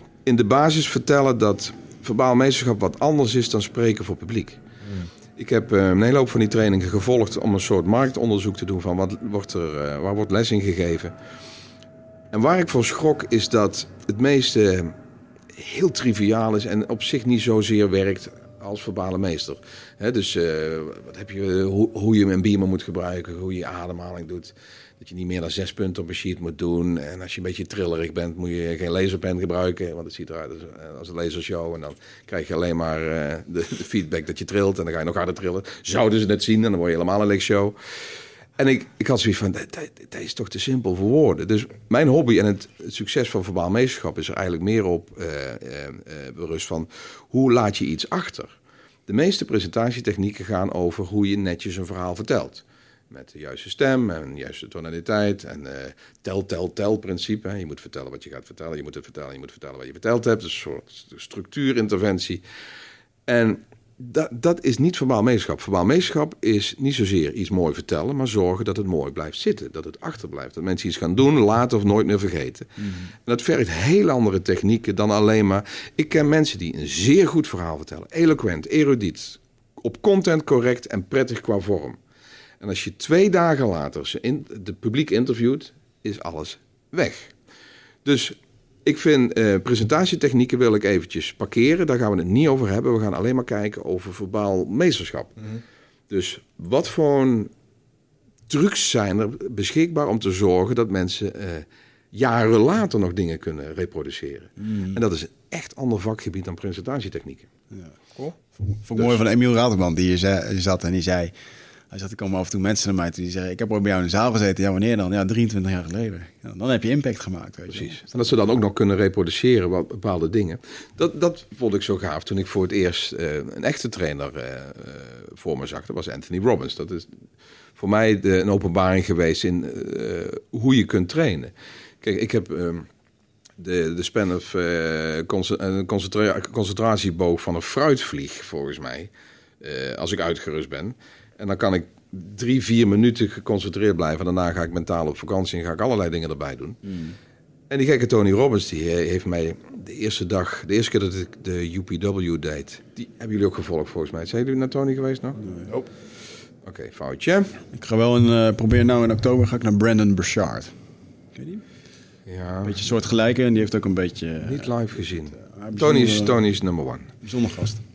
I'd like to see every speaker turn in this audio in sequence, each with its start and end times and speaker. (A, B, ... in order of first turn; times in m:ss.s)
0:00.2-0:04.6 A
0:05.4-0:11.1 A
0:12.3-0:14.9 A
0:15.6-0:37.8 A
0:38.6-0:48.5 A
0:49.1-1:02.4 A
1:03.3-1:22.0 A
1:12.8-1:13.1 B
1:22.6-1:27.3 A
1:28.0-1:35.4 A
1:36.1-1:37.5 A
1:38.5-1:47.5 A
1:44.6-1:45.0 B
1:48.6-1:51.3 B
1:51.9-1:58.0 B
1:57.7-2:07.1 A
2:07.8-2:12.9 A
2:13.6-2:26.8 A
2:26.8-2:27.2 B
2:27.7-2:35.4 A
2:35.4-2:35.7 B
2:36.6-2:37.6 A
2:37.7-2:40.7 B
2:41.4-2:41.6 B
2:42.3-2:42.8 A
2:42.6-2:44.8 B
2:44.4-2:47.1 A
2:45.3-2:46.4 B
2:47.2-2:47.8 B